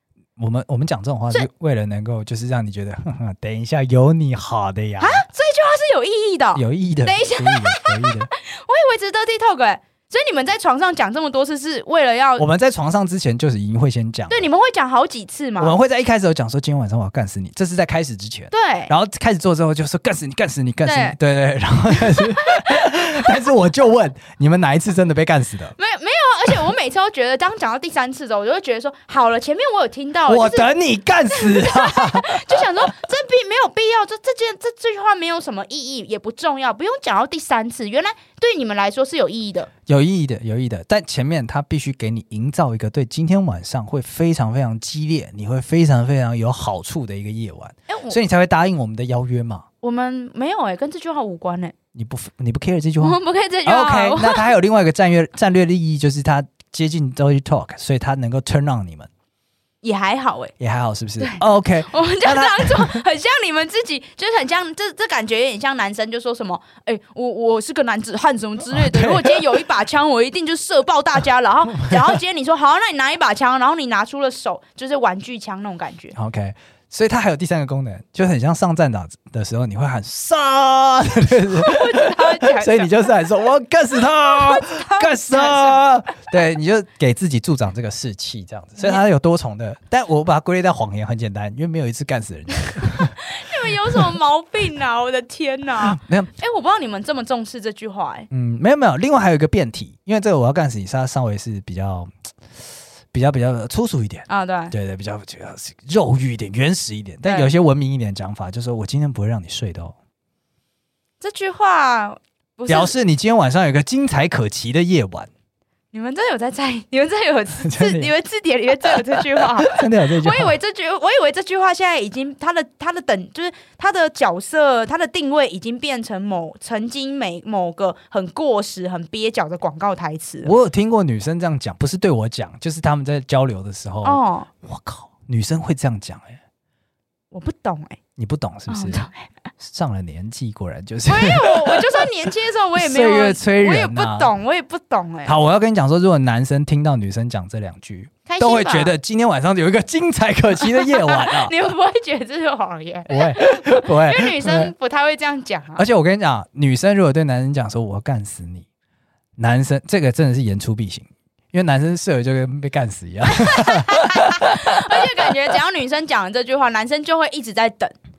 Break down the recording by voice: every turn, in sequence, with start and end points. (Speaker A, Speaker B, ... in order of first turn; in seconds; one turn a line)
Speaker A: 0.4-5.2
Speaker B: 5.0-12.4
Speaker A: 6.5-8.3
Speaker A: 12.4-14.5
Speaker B: 14.3-15.8
Speaker A: 15.6-25.8
Speaker B: 18.5-18.9
Speaker B: 20.9-21.2
Speaker B: 22.0-23.3
Speaker B: 25.8-30.7
Speaker A: 30.3-32.8
Speaker B: 31.3-39.7
Speaker A: 39.9-49.7
Speaker B: 47.9-48.2
Speaker B: 49.8-51.8
Speaker A: 52.0-59.1
Speaker B: 53.0-54.5
Speaker B: 59.8-60.5
Speaker A: 60.6-63.0
Speaker B: 61.2-76.1
Speaker A: 68.7-69.6
Speaker A: 76.1-93.2
Speaker B: 81.5-83.1
Speaker B: 84.1-85.8
Speaker B: 92.8-98.3
Speaker A: 95.8-96.3
Speaker A: 98.3-102.1
Speaker A: 103.1-110.0
Speaker B: 104.3-104.7
Speaker B: 107.2-107.5
Speaker B: 111.2-112.9
Speaker A: 112.7-115.3
Speaker B: 115.9-130.5
Speaker A: 117.6-118.1
Speaker A: 119.1-120.6
Speaker A: 130.4-136.4
Speaker B: 134.1-134.5
Speaker B: 137.3-138.0
Speaker A: 138.2-139.1
Speaker B: 138.7-139.3
Speaker A: 139.6-144.3
Speaker B: 141.1-145.3
Speaker A: 145.2-151.5
Speaker B: 148.3-148.9
Speaker B: 150.6-155.8
Speaker A: 153.1-154.7
Speaker A: 155.8-158.7
Speaker A: 159.4-164.8
Speaker B: 163.3-168.0